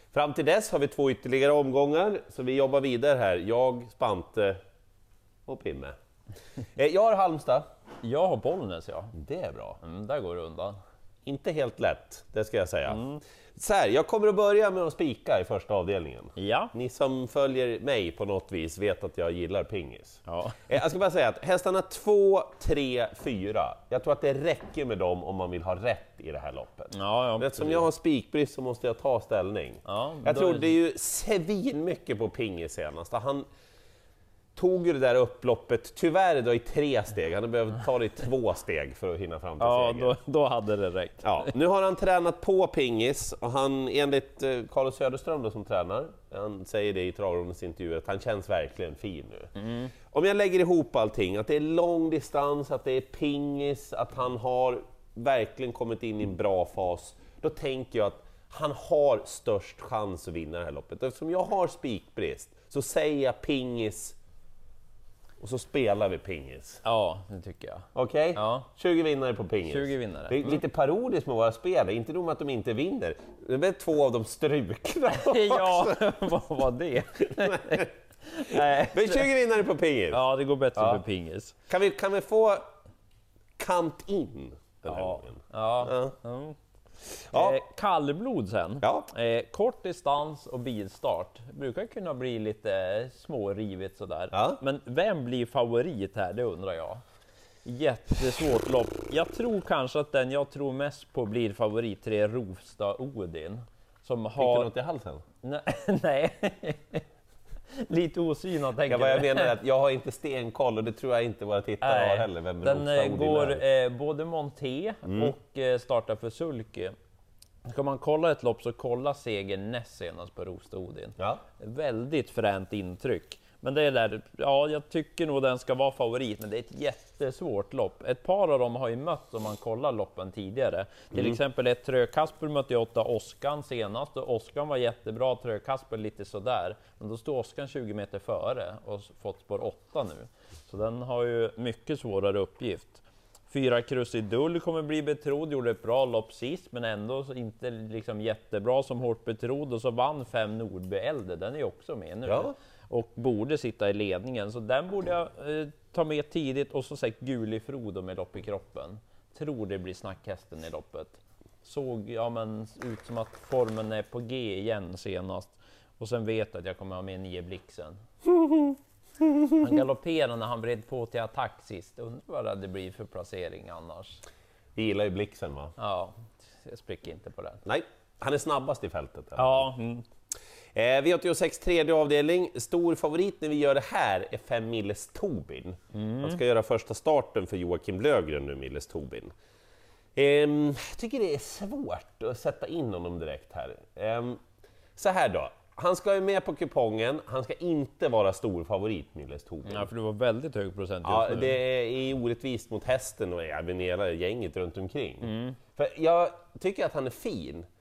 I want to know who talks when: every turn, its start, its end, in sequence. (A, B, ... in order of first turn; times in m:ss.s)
0:00.1-0:04.6 A
0:05.5-0:06.0 A
0:06.7-0:07.6 A
0:08.0-0:09.1 B
0:09.1-0:09.8 A
0:09.8-0:10.8 B
0:11.3-0:33.5 A
0:12.9-0:13.2 B
0:16.4-0:16.7 B
0:20.3-0:20.7 B
0:26.9-0:27.9 B
0:29.8-0:30.7 B
0:34.6-0:40.2 A
0:39.6-0:41.5 B
0:41.2-0:49.5 A
0:49.6-0:49.9 B
0:50.1-1:04.2 A
1:05.4-1:06.8 A
1:06.8-1:08.7 B
1:08.0-1:16.0 A
1:09.7-1:10.6 B
1:15.1-1:19.3 B
1:17.5-1:17.8 A
1:18.8-1:20.2 A
1:20.1-1:21.6 B
1:20.8-1:21.0 A
1:21.7-1:22.6 A
1:23.6-1:26.2 A
1:24.8-1:26.6 B
1:27.3-1:27.6 A
1:27.3-1:37.0 B
1:28.8-1:29.1 A
1:34.3-1:34.6 A
1:37.6-1:44.7 B
1:44.4-1:45.2 A
1:45.4-1:47.0 B
1:47.7-1:49.5 B
1:48.9-1:53.6 A
1:51.8-1:56.9 B
1:55.1-1:55.3 A
1:57.7-2:48.0 B
2:32.3-2:32.5 A
2:49.6-2:54.2 B
2:54.8-2:55.7 A
2:55.8-2:57.6 B
2:57.6-2:59.7 A
2:59.4-3:00.0 B
3:00.8-3:09.3 A
3:05.9-3:06.4 B
3:10.2-3:14.4 A
3:15.0-3:19.9 A
3:19.7-3:21.6 B
3:21.0-3:27.7 A
3:25.2-3:25.6 B